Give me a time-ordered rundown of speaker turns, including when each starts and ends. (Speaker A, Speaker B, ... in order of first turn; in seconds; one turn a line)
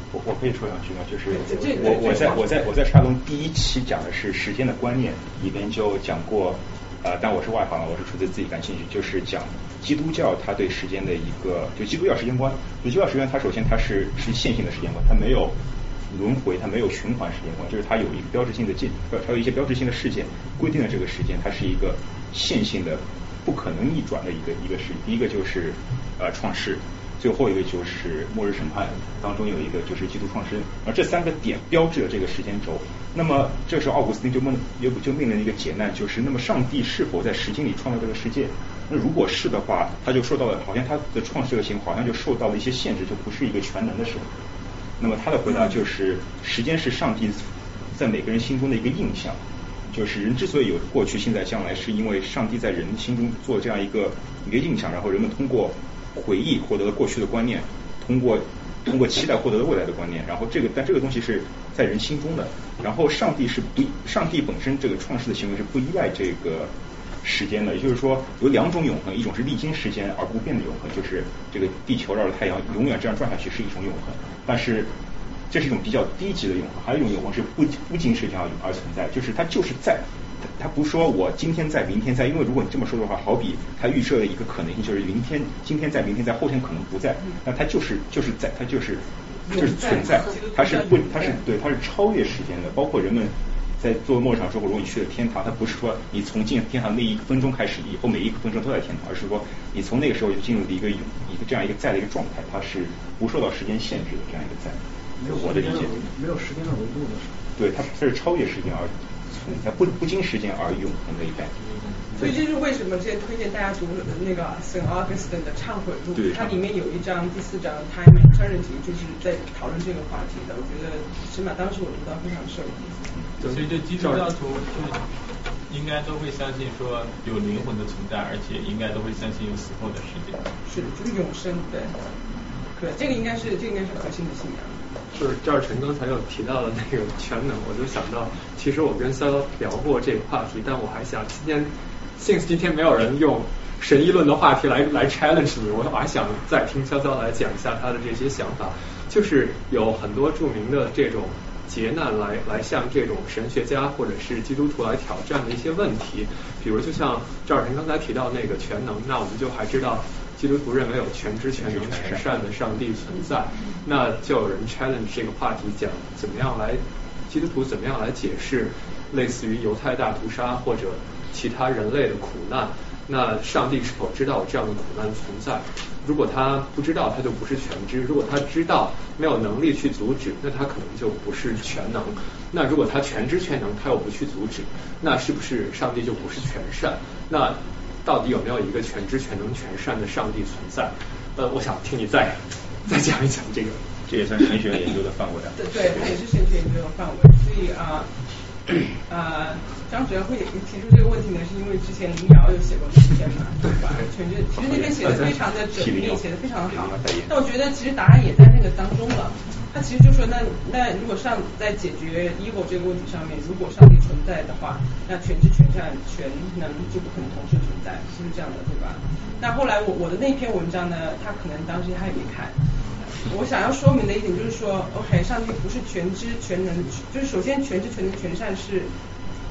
Speaker A: 0.1-15.6
Speaker B: 1.3-2.5
Speaker A: 16.1-44.3
Speaker A: 45.0-49.4
Speaker A: 49.9-66.7
Speaker A: 67.2-74.9
Speaker A: 75.5-106.0
Speaker B: 89.5-91.4
Speaker C: 105.2-107.4
Speaker A: 107.6-111.6
Speaker B: 112.2-123.0
Speaker A: 116.2-116.6
Speaker D: 123.4-124.3
Speaker E: 123.4-125.1
Speaker E: 125.7-130.5
Speaker B: 130.7-132.0
Speaker B: 132.8-134.8
Speaker D: 135.1-193.8
Speaker A: 161.6-162.3
Speaker A: 194.1-196.1
Speaker B: 195.6-198.1
Speaker B: 198.9-222.6
Speaker A: 204.6-207.3
Speaker B: 223.2-228.9